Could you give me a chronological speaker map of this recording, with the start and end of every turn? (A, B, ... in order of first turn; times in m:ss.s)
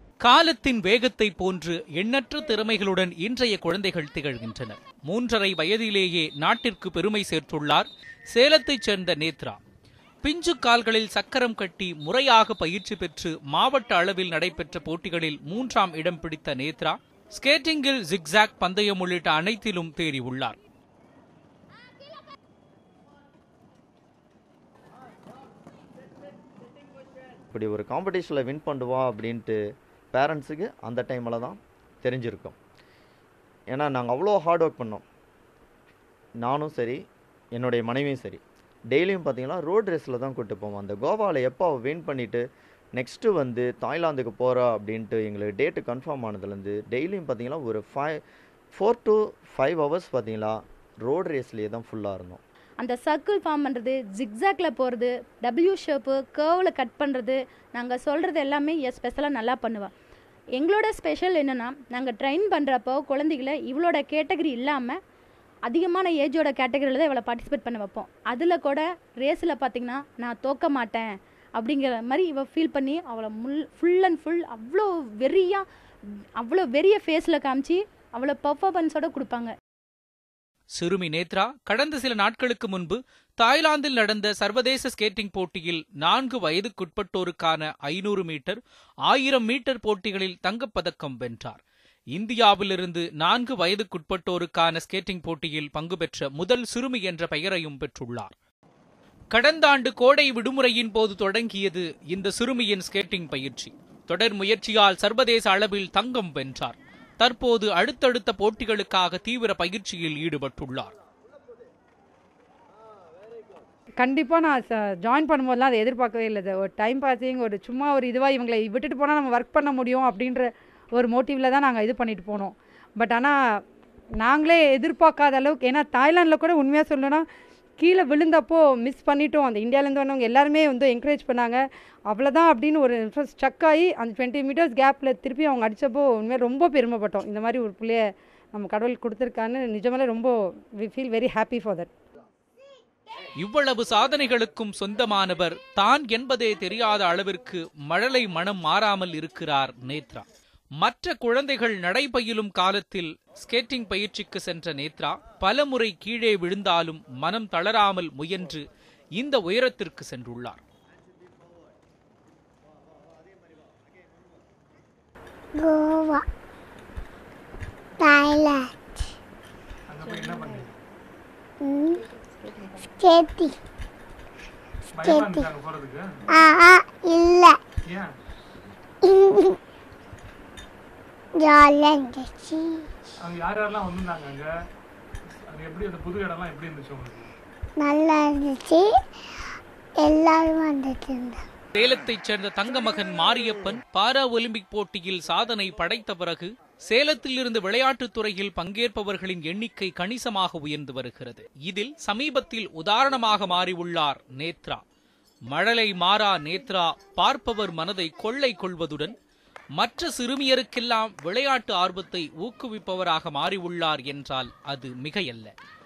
0:00.2-0:09.6 A
0:10.2-0:20.6 A
0:27.5-0:29.6 B
0:30.1-0:32.6 B
0:33.7-0:35.0 B
0:36.4-0:37.0 B
0:37.5-0:42.4 B
0:43.0-0:48.2 B
0:48.7-0:52.4 B
0:52.8-0:59.9 C
1:00.6-1:05.0 C
1:05.7-1:15.6 C
1:16.4-1:19.5 C
1:20.7-1:31.6 A
1:32.2-1:38.3 A
1:39.3-1:50.9 A
1:54.0-2:03.6 D
2:04.2-2:07.2 D
2:07.8-2:21.9 D
2:23.4-2:30.2 A
2:30.8-2:38.6 A
2:39.2-2:40.6 A
2:45.6-2:46.2 E
2:48.0-2:48.7 E
2:49.9-2:50.8 F
2:51.6-2:52.0 E
2:52.8-2:53.6 E
2:54.9-2:56.0 F
2:55.0-2:55.4 E
2:56.4-2:57.6 E
2:59.1-2:59.6 E
3:01.4-3:02.8 E
3:03.2-3:04.4 F
3:05.5-3:07.3 F
3:07.8-3:08.9 E
3:10.0-3:11.4 E
3:11.7-3:24.8 A
3:25.5-3:29.2 A
3:29.8-3:35.5 A